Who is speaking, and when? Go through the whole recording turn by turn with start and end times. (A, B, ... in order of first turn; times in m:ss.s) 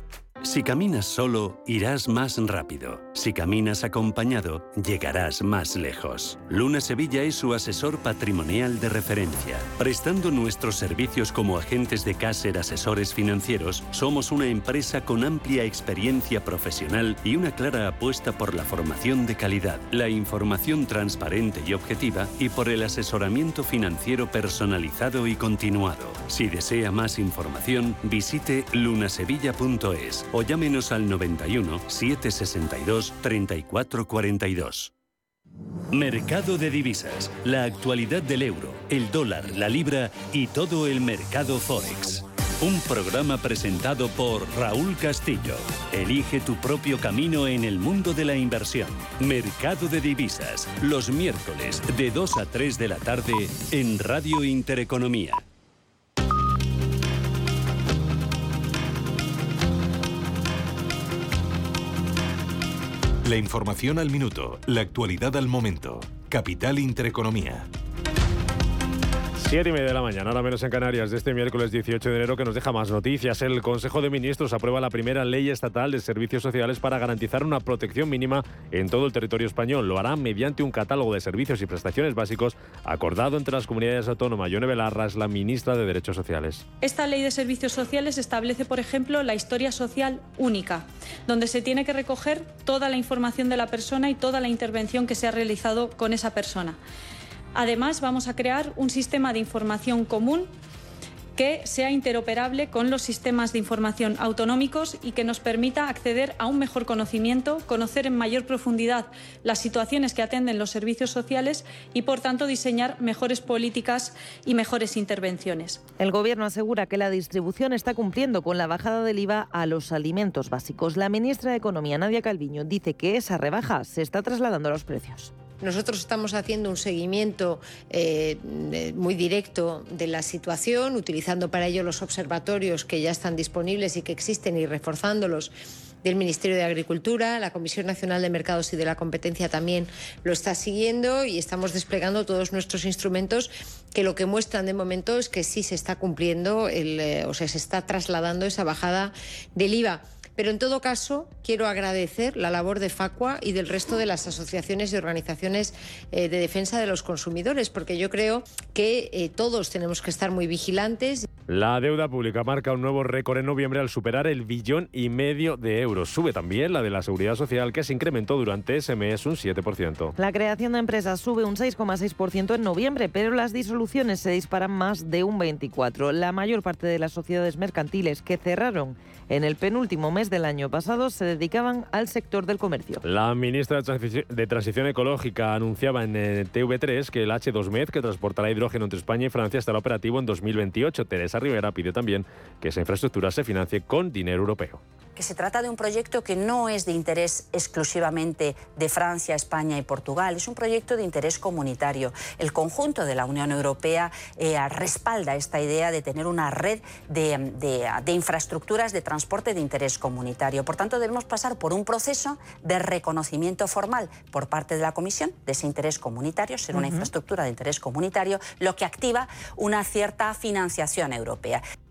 0:00.4-0:34.9 A
0:35.9-0:55.4 A
1:03.2-1:07.7 B
1:09.4-1:26.6 C
1:26.8-1:36.8 D
1:37.5-1:40.5 D
1:41.4-1:55.8 D
1:56.0-2:05.3 E
2:05.6-2:15.5 F
2:16.0-2:41.3 F
2:41.5-2:50.1 C
2:50.2-3:03.0 E
3:03.0-3:14.8 C
3:15.2-3:41.6 G
3:36.7-3:37.1 E